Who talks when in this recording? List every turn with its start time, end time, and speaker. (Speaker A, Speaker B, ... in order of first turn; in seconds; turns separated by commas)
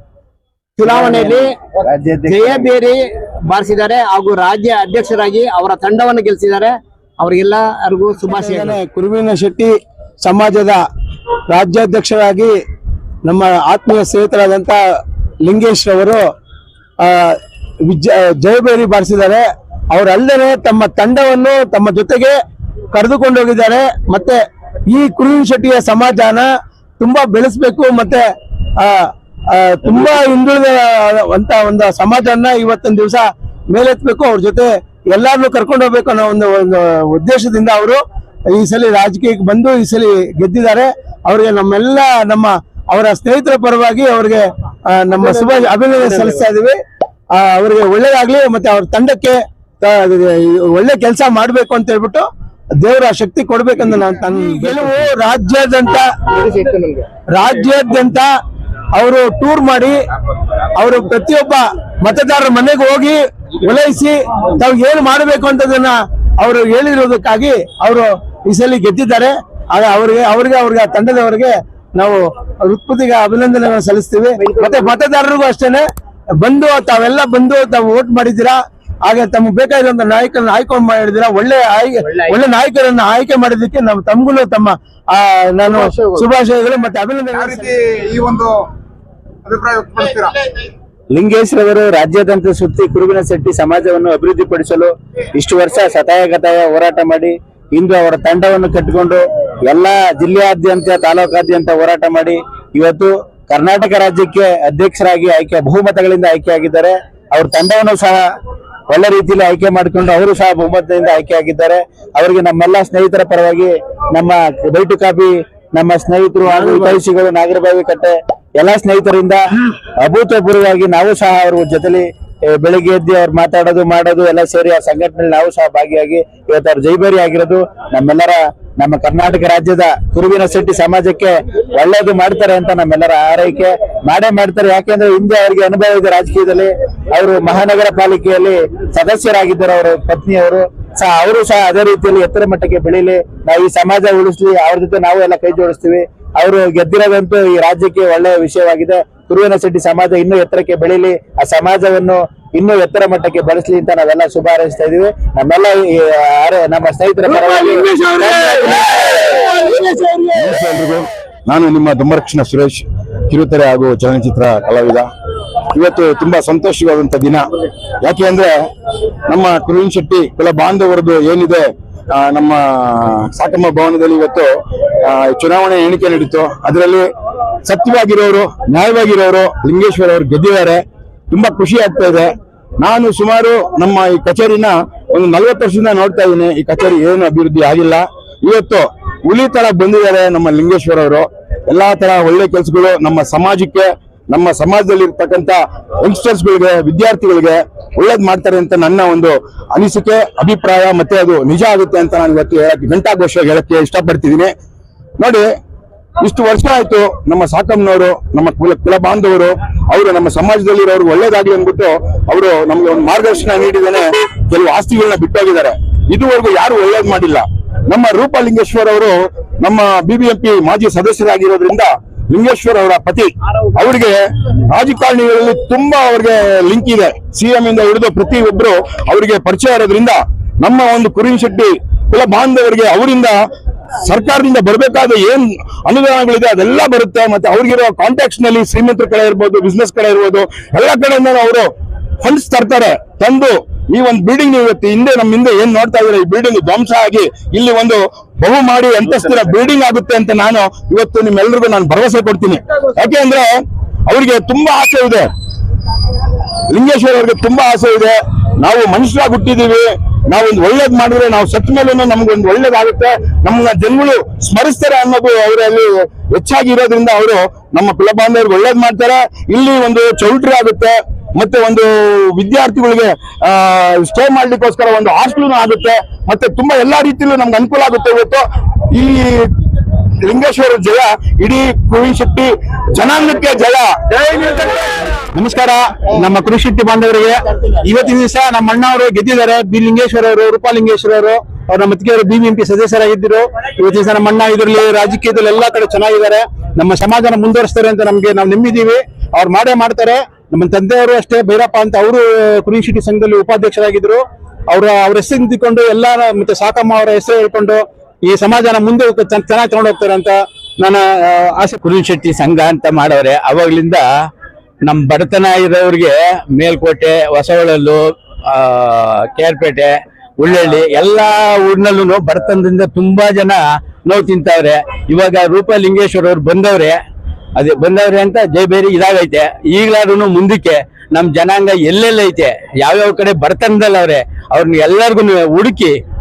Speaker A: 0.8-1.6, Speaker B: 0.8-2.7, Speaker A: 2.2-8.7, Speaker C: 8.3-10.8, Speaker C: 11.5-12.5, Speaker C: 13.2-14.8, Speaker C: 15.4-16.2, Speaker C: 17.0-22.4, Speaker C: 22.9-26.5, Speaker C: 27.0-28.2, Speaker C: 28.8-46.8, Speaker A: 45.2-45.6, Speaker C: 47.3-56.1, Speaker C: 57.3-58.3, Speaker C: 58.9-60.0, Speaker C: 60.8-75.8, Speaker A: 74.4-74.9, Speaker C: 76.4-87.8, Speaker D: 87.3-88.5, Speaker D: 89.5-90.3, Speaker B: 91.1-108.2, Speaker B: 108.9-119.4, Speaker B: 120.0-158.7, Speaker C: 158.2-158.8, Speaker C: 159.4-160.3, Speaker E: 160.3-165.1, Speaker E: 165.7-167.4, Speaker E: 168.0-168.5, Speaker E: 169.3-171.6, Speaker E: 172.2-174.5, Speaker E: 175.1-177.0, Speaker E: 177.7-180.8, Speaker E: 181.3-204.5, Speaker E: 205.2-205.4, Speaker E: 206.2-224.1, Speaker E: 224.7-233.3, Speaker E: 234.0-241.7, Speaker E: 242.2-253.5, Speaker E: 254.1-255.3, Speaker E: 256.7-278.4, Speaker E: 278.9-279.3, Speaker E: 280.3-284.6, Speaker F: 284.1-284.8, Speaker F: 285.3-311.8, Speaker G: 311.9-314.0, Speaker G: 314.9-317.9, Speaker G: 318.9-319.9, Speaker G: 320.4-323.6, Speaker G: 324.1-326.9, Speaker G: 327.6-335.9